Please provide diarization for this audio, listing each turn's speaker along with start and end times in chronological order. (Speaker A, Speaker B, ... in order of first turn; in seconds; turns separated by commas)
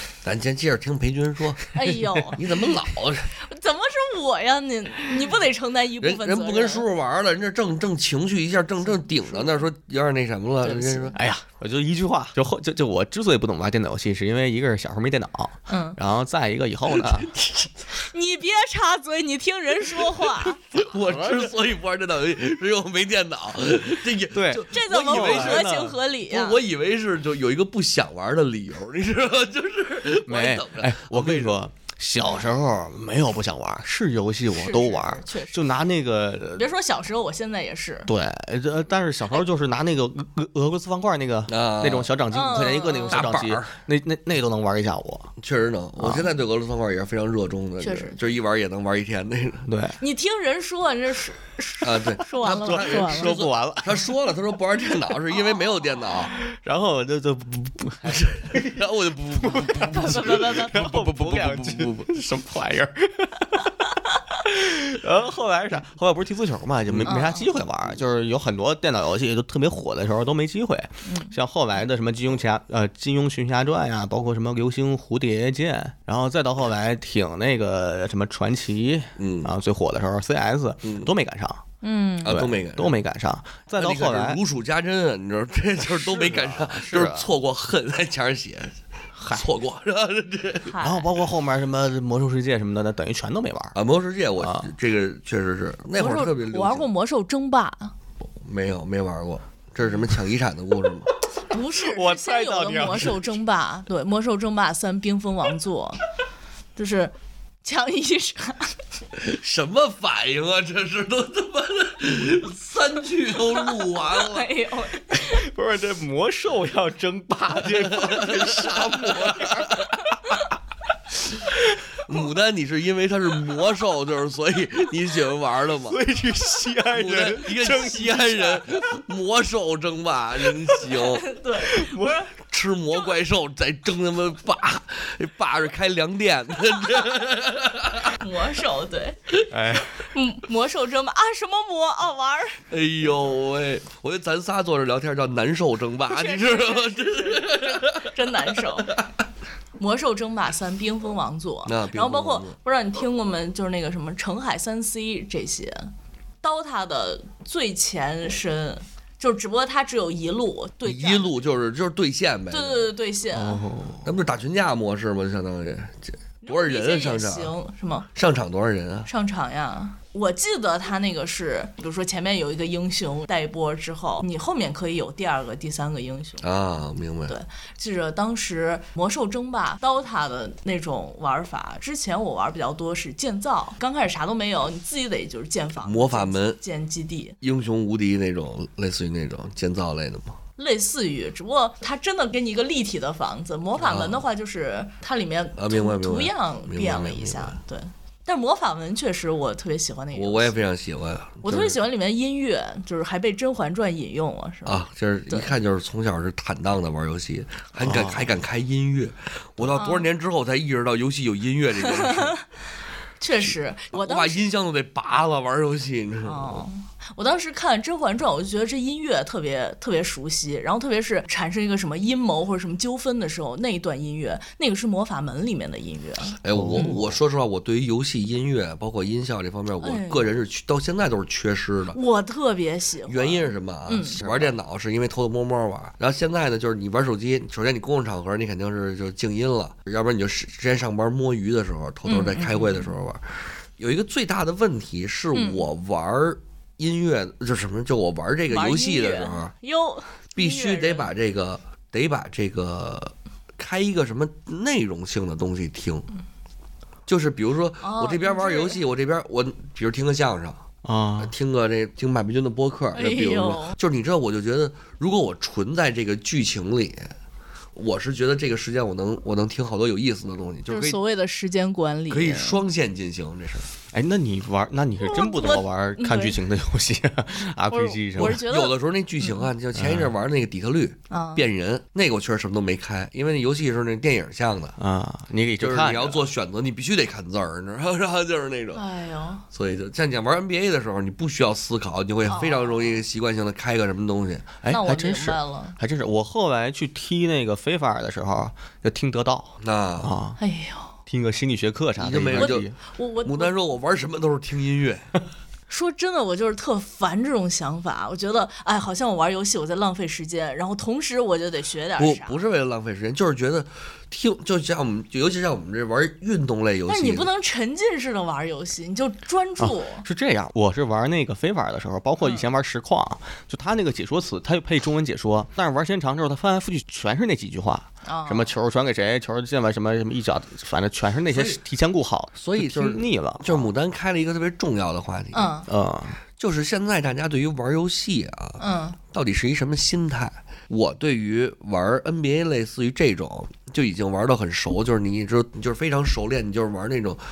Speaker A: 0.2-1.8, Speaker B: 1.7-2.5, Speaker A: 2.4-3.3, Speaker B: 3.3-6.9, Speaker A: 6.0-11.2, Speaker B: 8.8-9.6, Speaker B: 10.6-11.2, Speaker C: 11.2-17.3, Speaker B: 15.7-16.0, Speaker A: 16.9-17.7, Speaker B: 17.9-20.6, Speaker A: 20.7-25.7, Speaker C: 21.0-21.5, Speaker C: 24.3-26.0, Speaker B: 24.7-26.6, Speaker A: 26.3-31.6, Speaker C: 30.3-36.7, Speaker B: 34.5-35.8, Speaker B: 36.6-38.1, Speaker C: 38.1-45.3, Speaker A: 41.5-42.1, Speaker B: 42.3-43.2, Speaker A: 43.1-43.7, Speaker A: 45.4-49.7, Speaker C: 46.0-46.3, Speaker B: 47.8-48.2, Speaker C: 49.7-50.0, Speaker B: 50.0-53.5, Speaker A: 51.8-56.4, Speaker C: 52.4-54.0, Speaker C: 56.3-81.6, Speaker A: 58.0-62.1, Speaker B: 59.8-60.9, Speaker A: 66.9-68.0, Speaker B: 67.1-67.5, Speaker B: 71.0-71.3, Speaker A: 79.2-79.5, Speaker A: 80.8-81.1, Speaker B: 81.8-82.4, Speaker A: 82.2-83.0, Speaker C: 82.3-84.4, Speaker A: 83.8-88.8, Speaker C: 85.8-87.3, Speaker C: 89.2-89.5, Speaker A: 89.3-90.7, Speaker B: 90.7-91.1, Speaker C: 90.8-93.8, Speaker A: 93.8-96.9, Speaker C: 94.4-94.7, Speaker B: 96.0-97.9, Speaker A: 98.4-101.1, Speaker B: 101.5-106.0, Speaker C: 101.8-103.4, Speaker B: 106.8-108.8, Speaker A: 109.2-114.5, Speaker B: 113.6-115.4, Speaker C: 115.1-120.4, Speaker A: 117.8-119.9, Speaker C: 121.5-121.8, Speaker A: 122.1-126.0, Speaker C: 125.9-128.6, Speaker A: 126.9-131.2, Speaker B: 131.0-132.3, Speaker C: 131.6-132.2, Speaker A: 132.4-138.2, Speaker B: 138.2-139.4, Speaker C: 139.5-140.0, Speaker B: 139.9-142.6, Speaker A: 142.7-148.1, Speaker B: 146.1-149.0, Speaker B: 149.8-155.9, Speaker A: 151.7-152.6, Speaker B: 156.4-161.4, Speaker A: 160.8-162.9, Speaker B: 162.5-163.6, Speaker C: 163.3-164.1, Speaker A: 164.1-167.5, Speaker B: 166.4-168.1, Speaker A: 168.2-169.1, Speaker B: 169.1-176.5, Speaker A: 176.4-177.4, Speaker B: 177.3-187.4, Speaker A: 185.8-186.6, Speaker A: 187.4-190.4, Speaker B: 190.6-200.6, Speaker A: 193.8-194.2, Speaker A: 195.6-197.6, Speaker A: 200.1-201.8, Speaker B: 201.4-205.5, Speaker A: 204.7-212.4, Speaker C: 207.8-208.3, Speaker B: 209.7-210.1, Speaker B: 211.9-212.4, Speaker B: 213.2-214.4, Speaker A: 213.9-216.6, Speaker B: 216.2-227.0, Speaker A: 226.4-232.0, Speaker C: 226.5-227.1, Speaker B: 229.8-230.3, Speaker B: 231.9-234.2, Speaker A: 233.1-249.5, Speaker B: 242.1-242.9, Speaker B: 245.3-245.6, Speaker B: 248.5-251.1, Speaker A: 250.3-256.1, Speaker A: 257.1-260.6, Speaker B: 257.8-258.8, Speaker C: 260.8-261.3, Speaker A: 261.2-267.1, Speaker B: 262.9-263.8, Speaker A: 267.8-271.0, Speaker B: 270.7-272.6, Speaker A: 272.1-273.7, Speaker C: 273.9-278.4, Speaker B: 275.0-276.4, Speaker B: 277.7-279.5, Speaker A: 278.2-284.8, Speaker C: 279.8-280.1, Speaker B: 281.1-281.5, Speaker C: 284.8-286.2, Speaker A: 285.6-288.8, Speaker B: 288.7-289.5, Speaker A: 289.5-294.6, Speaker B: 292.3-293.0, Speaker C: 294.6-300.4, Speaker B: 294.7-295.8, Speaker A: 299.6-300.1, Speaker B: 300.4-300.9, Speaker C: 301.1-302.8, Speaker A: 302.0-302.7, Speaker B: 302.4-303.5, Speaker A: 303.2-305.1, Speaker B: 305.7-312.4, Speaker A: 312.0-317.3, Speaker B: 316.9-320.1, Speaker C: 319.6-333.7, Speaker B: 322.2-322.5, Speaker B: 328.1-328.5, Speaker A: 331.3-331.6, Speaker A: 332.4-335.6, Speaker B: 335.3-335.7, Speaker C: 335.7-336.2, Speaker A: 336.4-347.2, Speaker B: 338.6-339.0